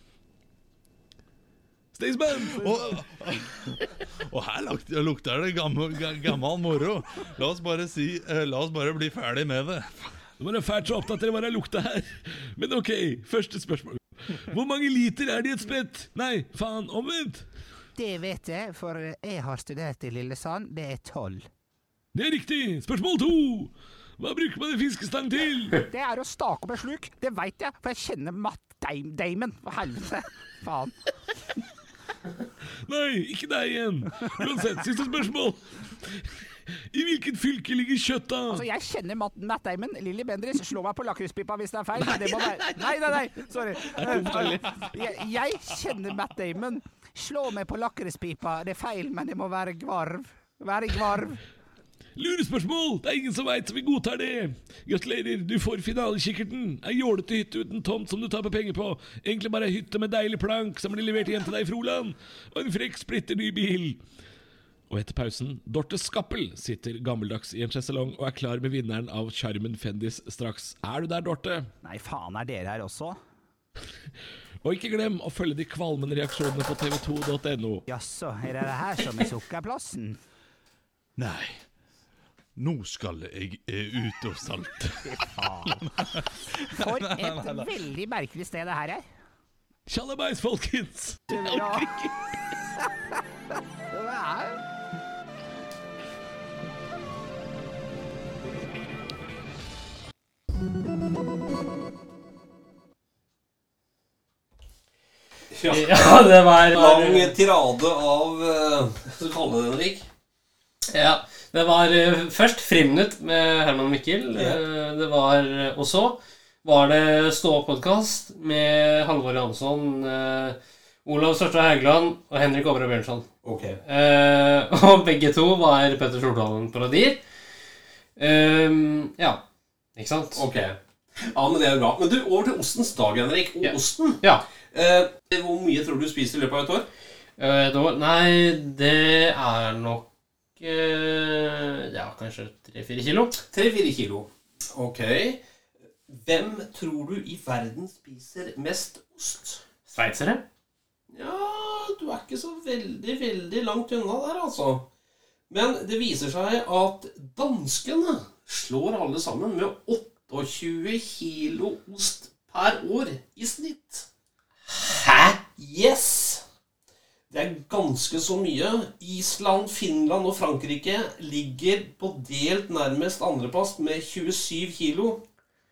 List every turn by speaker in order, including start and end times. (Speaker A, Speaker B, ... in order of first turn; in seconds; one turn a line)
Speaker A: 1.9-2.6
Speaker B: 2.5-10.2
Speaker A: 10.4-17.5
Speaker C: 18.0-21.5
Speaker A: 22.1-25.8
Speaker C: 25.9-31.0
Speaker A: 32.9-38.6
Speaker C: 38.5-51.4
Speaker A: 42.0-43.0
Speaker A: 43.9-44.7
Speaker A: 52.2-64.0
Speaker A: 64.9-71.7
Speaker C: 71.8-73.2
Speaker A: 74.6-77.8
Speaker C: 77.9-80.2
Speaker B: 81.2-81.6
Speaker B: 82.6-87.7
Speaker C: 85.1-85.9
Speaker C: 86.7-89.1
Speaker A: 89.9-92.2
Speaker C: 91.3-92.0
Speaker C: 93.9-94.6
Speaker D: 105.5-106.1
Speaker E: 105.7-107.4
Speaker D: 106.7-110.1
Speaker E: 110.9-123.3
Speaker D: 114.3-114.6
Speaker D: 123.4-123.8
Speaker E: 123.8-127.2
Speaker E: 128.2-129.4
Speaker E: 130.0-130.4
Speaker D: 130.4-136.9
Speaker E: 133.6-134.4
Speaker E: 137.4-143.4
Speaker D: 143.4-145.4
Speaker D: 146.1-149.6
Speaker E: 149.9-150.4
Speaker D: 151.1-154.9
Speaker D: 155.5-164.1
Speaker E: 164.8-165.4
Speaker D: 165.4-166.4
Speaker D: 167.3-175.2